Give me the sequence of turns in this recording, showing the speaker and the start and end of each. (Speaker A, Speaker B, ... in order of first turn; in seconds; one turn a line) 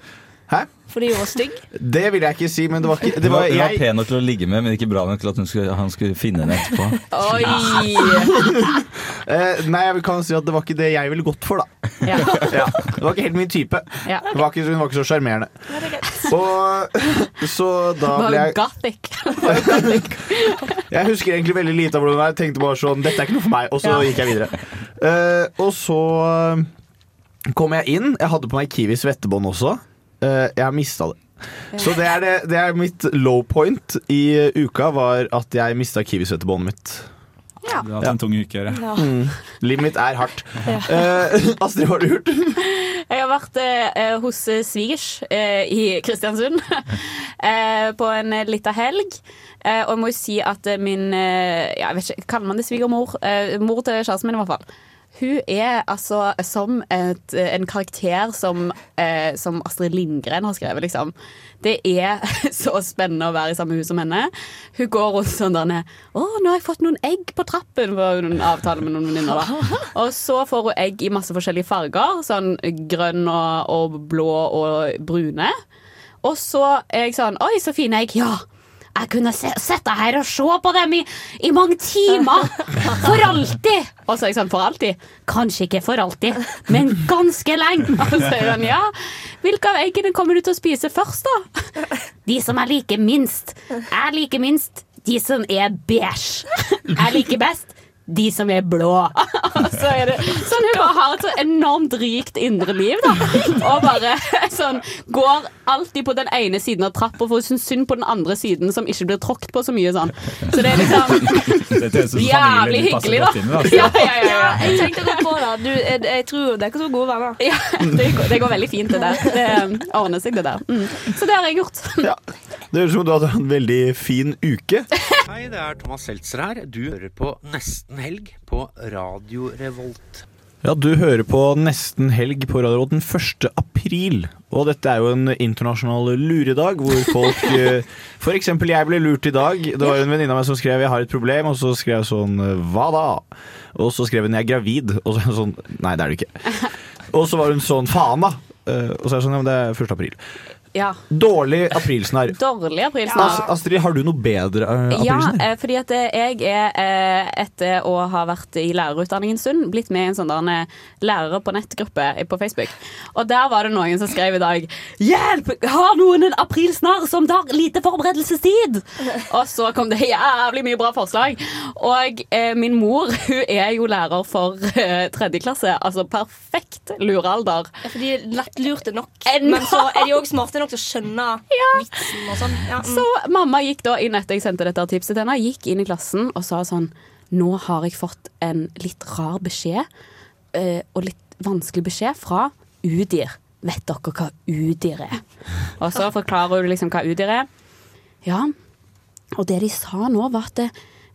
Speaker A: 0.9-1.6
Speaker B: 1.7-3.9
Speaker C: 3.2-7.8
Speaker D: 7.1-8.5
Speaker B: 8.2-11.7
Speaker D: 12.0-12.6
Speaker B: 12.3-15.5
Speaker A: 15.7-16.3
Speaker B: 16.1-18.6
Speaker D: 18.1-20.7
Speaker B: 19.5-20.1
Speaker B: 20.9-26.7
Speaker D: 23.8-24.1
Speaker B: 27.5-31.2
Speaker B: 31.7-37.1
Speaker E: 37.8-38.9
Speaker A: 38.7-39.1
Speaker B: 39.0-42.6
Speaker A: 40.6-41.0
Speaker D: 42.6-54.6
Speaker D: 55.2-75.5
Speaker D: 76.2-78.4
Speaker D: 79.0-91.6
Speaker D: 92.3-115.2
Speaker E: 111.3-114.9
Speaker A: 113.7-117.4
Speaker D: 117.4-122.1
Speaker B: 122.7-124.9
Speaker F: 125.3-130.2
Speaker B: 130.6-146.3
Speaker B: 147.1-150.2
Speaker D: 150.7-151.0
Speaker B: 151.1-152.4
Speaker D: 152.3-153.5
Speaker A: 153.1-153.5
Speaker B: 153.2-155.4
Speaker D: 154.9-177.7
Speaker A: 177.8-183.1
Speaker D: 179.3-180.1
Speaker D: 181.5-182.1
Speaker D: 182.8-189.9
Speaker D: 190.5-195.2
Speaker D: 195.8-197.5
Speaker D: 198.2-198.5
Speaker D: 199.3-200.7